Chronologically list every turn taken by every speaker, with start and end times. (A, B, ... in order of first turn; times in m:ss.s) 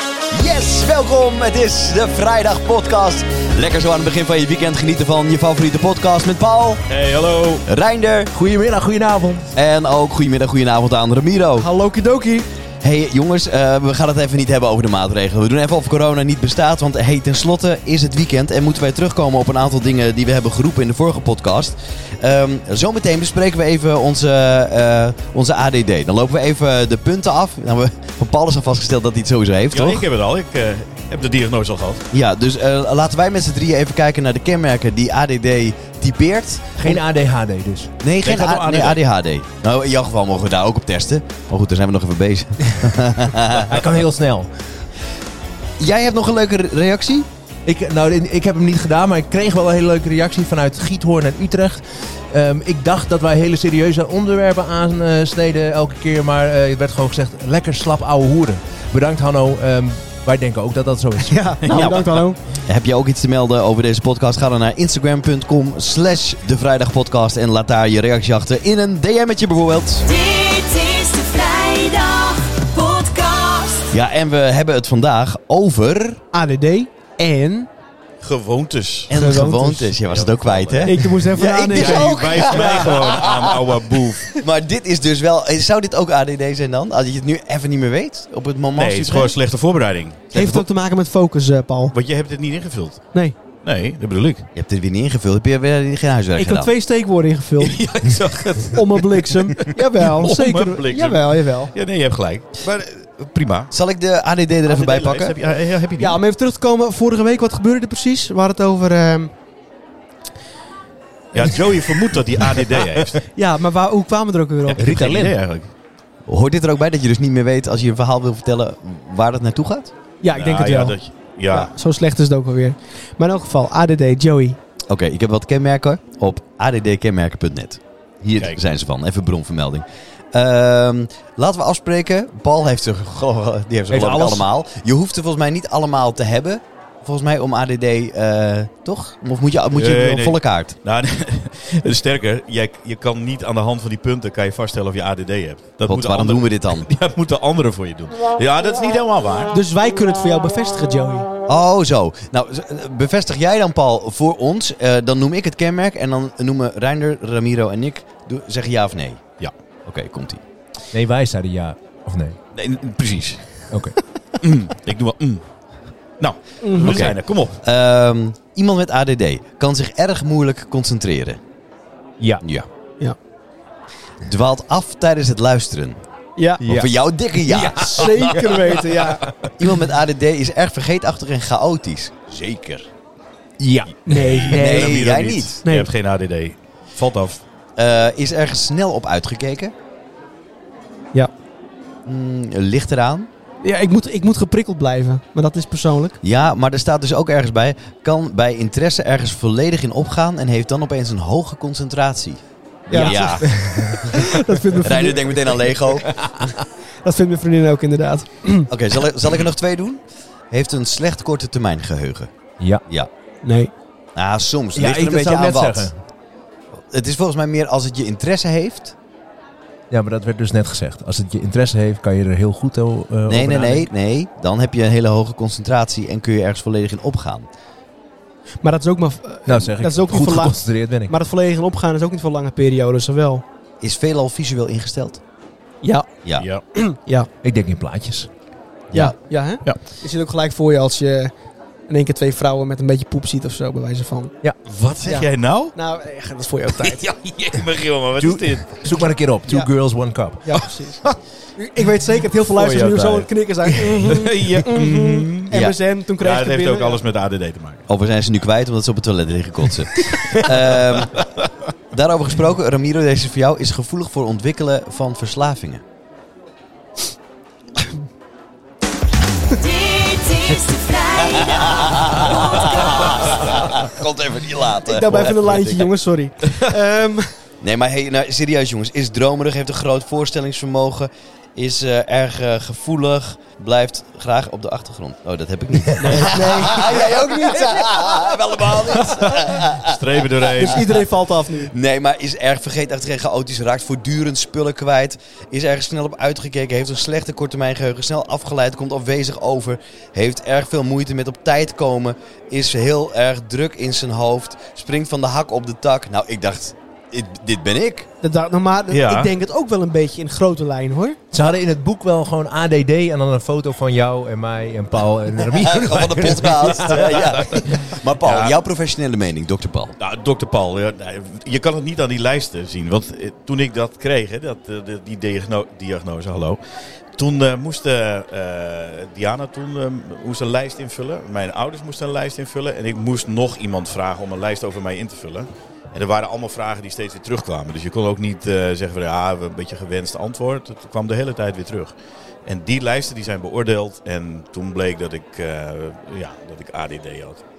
0:00.3-0:06.8 A
0:06.9-0:07.6 B
0:07.6-0:08.3 A
0:08.3-0:09.5 C
0:09.5-0:11.7 A
0:11.6-0:12.5 D
0:12.8-0:30.0 A
0:29.7-0:32.0 B
0:32.1-0:37.0 A
0:36.8-0:37.9 C
0:38.0-0:43.8 A
0:38.2-0:39.0 B
0:43.5-0:44.5 C
0:45.8-0:47.3 A
0:47.6-1:01.5 C
1:01.2-1:02.4 D
1:01.6-1:02.0 B
1:01.6-1:10.0 A
1:10.1-1:13.9 E
1:13.9-1:16.2 A
1:16.3-1:17.7 D
1:18.2-1:19.1 B
1:19.1-1:29.3 A
1:19.1-1:19.9 D
1:20.0-1:24.3 B
1:20.8-1:22.9 D
1:28.7-1:30.6 B
1:30.3-1:31.9 D
1:31.9-1:34.5 B
1:34.5-1:36.7 A
1:36.4-1:37.8 D
1:37.6-1:43.7 B
1:38.7-1:41.7 D
1:43.7-1:45.3 A
1:44.7-1:46.2 B
1:46.0-1:49.3 D
1:51.3-1:53.2 B
1:53.3-1:55.2 D
1:54.6-1:55.7 B
1:54.8-1:55.4 C
1:56.3-1:59.9 A
2:00.2-2:01.0 D
2:00.3-2:01.7 B
2:01.5-2:04.6 D
2:04.9-2:20.8 A
2:13.9-2:14.5 B
2:19.7-2:29.5 B
2:25.8-2:26.9 A
2:29.5-2:31.3 D
2:31.5-2:39.2 A
2:39.8-2:40.4 A
2:40.9-2:42.4 C
2:42.5-2:43.7 B
2:43.7-2:44.0 C
2:44.4-2:45.4 B
2:46.2-2:47.6 B
2:46.6-2:47.1 D
2:46.8-2:51.4 A
2:52.4-2:52.7 A
2:54.2-2:56.0 A
2:56.4-2:56.6 D
2:56.6-2:56.9 C
2:56.6-2:58.5 A
2:57.4-2:58.5 C
2:57.8-2:59.3 D
2:59.6-3:02.9 A
3:03.6-3:04.4 C
3:04.0-3:05.0 D
3:04.2-3:07.4 B
3:04.4-3:05.6 A
3:05.6-3:05.9 D
3:07.8-3:09.7 A
3:12.0-3:13.3 A
3:13.6-3:16.2 D
3:16.2-3:24.2 A
3:22.9-3:25.7 D
3:22.9-3:24.1 C
3:24.8-3:26.1 A
3:26.2-3:26.6 C
3:27.0-3:28.7 D
3:28.7-3:32.3 A
3:32.8-3:33.1 A
3:33.4-3:33.7 D
3:34.2-3:35.9 A
3:34.7-3:36.0 C
3:36.9-3:38.9 A
3:39.9-3:43.9 C
3:43.3-3:47.5 A
3:48.6-3:53.4 D
3:49.4-3:51.1 C
3:53.8-3:55.2 A
3:55.8-3:56.1 D
3:56.7-3:57.3 D
3:57.4-3:58.3 C
3:58.9-3:59.2 A
3:58.9-4:01.3 D
4:01.9-4:04.3 D
4:04.6-4:05.7 B
4:05.0-4:07.0 D
4:07.0-4:10.6 C
4:07.2-4:09.1 B
4:10.4-4:17.0 D
4:10.5-4:11.1 B
4:12.5-4:13.3 B
4:13.6-4:14.2 C
4:14.0-4:15.5 B
4:16.2-4:17.8 B
4:17.9-4:21.2 A
4:20.9-4:21.5 B
4:21.9-4:25.8 A
4:29.5-4:33.5 E
4:31.3-4:35.9 A
4:34.8-4:37.3 D
4:37.6-4:50.8 A
4:46.0-4:48.3 D
4:49.6-4:51.0 B
4:50.6-4:51.7 D
4:51.7-5:08.1 A
5:08.2-5:11.2 D
5:08.9-5:09.3 B
5:11.3-5:17.2 C
5:15.6-5:20.0 A
5:16.9-5:18.6 B
5:20.0-5:26.6 B
5:27.2-5:41.9 B
5:42.4-5:47.4 B